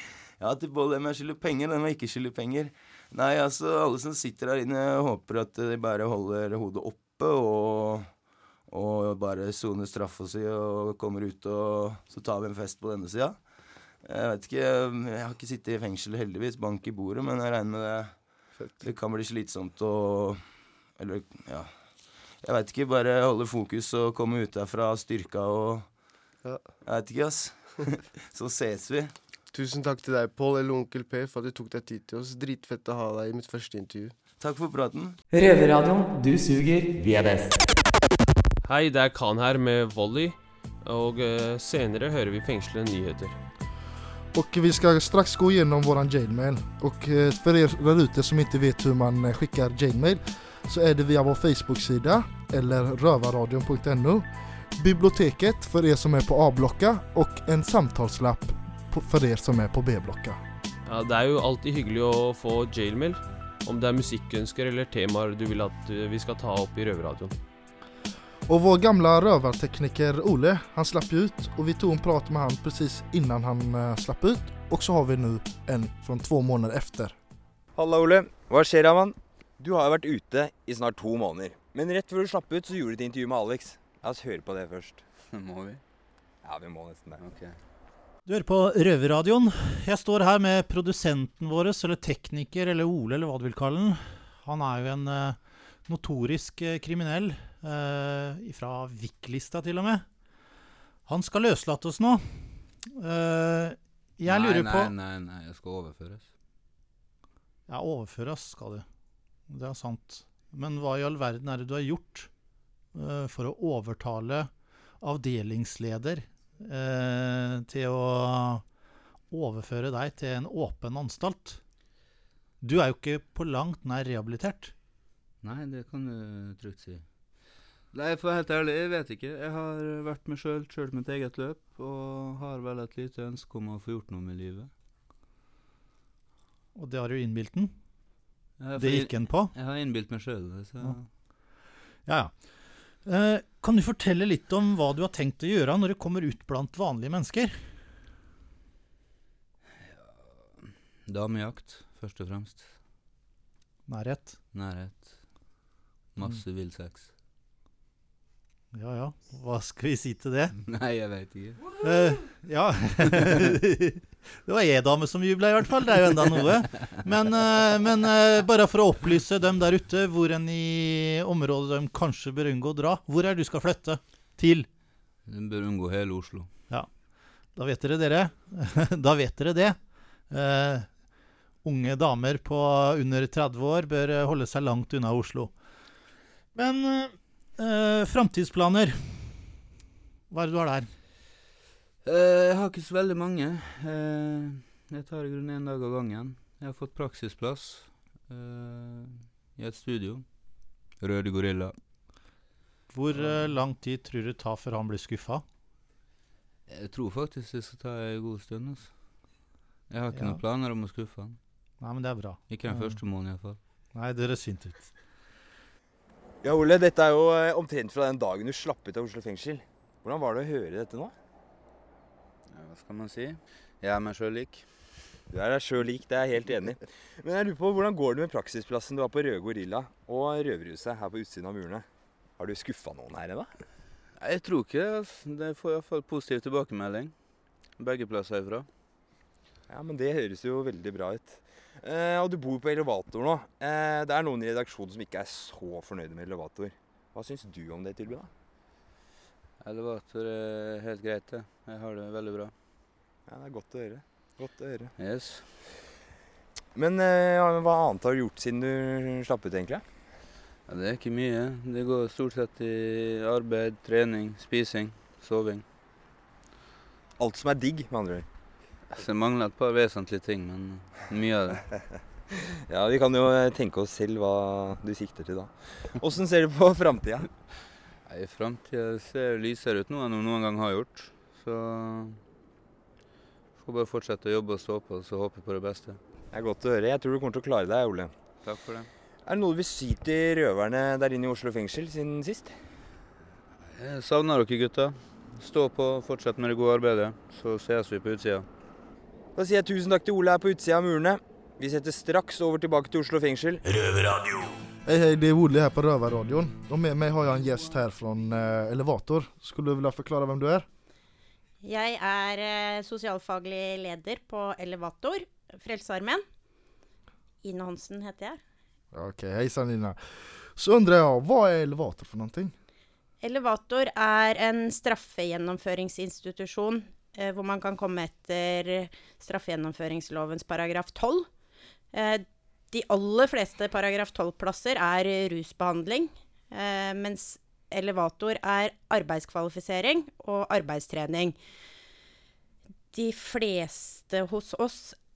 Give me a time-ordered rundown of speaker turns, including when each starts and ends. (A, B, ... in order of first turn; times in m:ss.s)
0:00.4-0:08.1 A
0:08.7-0:13.4 A
0:14.0-0:18.2 A
0:18.8-0:20.4 A
0:21.0-0:21.7 A
0:22.4-0:25.9 A
0:26.8-0:29.1 A
0:29.5-0:34.2 B
0:34.4-0:35.2 A
0:35.3-0:37.6 C
0:38.6-0:43.4 D
0:44.3-1:00.4 E
1:00.8-1:07.3 D
1:08.5-1:17.1 E
1:17.8-1:25.0 F
1:25.3-1:25.8 G
1:26.4-1:27.2 F
1:27.2-1:27.6 G
1:28.3-1:40.1 H
1:41.1-1:44.9 H
1:44.3-1:46.3 G
1:47.7-1:48.8 H
1:49.5-1:52.3 H
1:52.9-1:58.7 H
1:59.3-2:01.6 H
2:02.6-2:04.7 H
2:05.4-2:14.7 G
2:16.8-2:17.8 H
2:18.6-2:21.1 G
2:18.8-2:19.6 H
2:22.0-2:27.6 H
2:29.9-2:32.8 G
2:33.9-2:34.4 H
2:34.5-2:35.4 G
2:36.1-2:37.1 G
2:38.7-2:40.5 H
2:40.6-2:41.6 G
2:41.8-2:54.7 H
2:55.2-2:56.5 G
2:56.7-3:01.0 H
3:01.6-3:05.6 H
3:06.6-3:09.5 H
3:10.3-3:10.9 H
3:12.0-3:21.8 G
3:22.9-3:25.4 H
3:23.1-3:23.6 G
3:26.7-3:29.3 G
3:29.9-3:31.4 G
3:30.1-3:30.4 H
3:31.8-3:33.0 H
3:32.5-3:33.6 G
3:33.9-3:35.0 H
3:36.4-3:41.1 F
3:42.5-3:44.8 G
3:45.3-3:51.9 F
3:52.4-3:53.6 F
3:54.2-3:58.7 G
3:59.7-4:08.3 F
4:09.6-4:12.5 G
4:13.3-4:14.9 F
4:15.0-4:15.6 G
4:16.8-4:19.8 F
4:20.7-4:25.6 G
4:27.2-4:28.2 F
4:28.9-4:31.6 G
4:32.7-4:37.3 F
4:38.0-4:42.2 G
4:43.6-4:46.0 G
4:46.3-4:48.1 F
4:48.4-4:48.9 G
4:49.3-4:52.6 F
4:53.7-4:58.5 G
4:59.4-5:03.6 F
5:04.8-5:10.7 E
5:11.6-5:16.2 I
5:17.4-5:18.4 I
5:18.9-5:22.5 E
5:23.2-5:31.3 I
5:31.9-5:41.4 I
5:42.9-5:45.0 I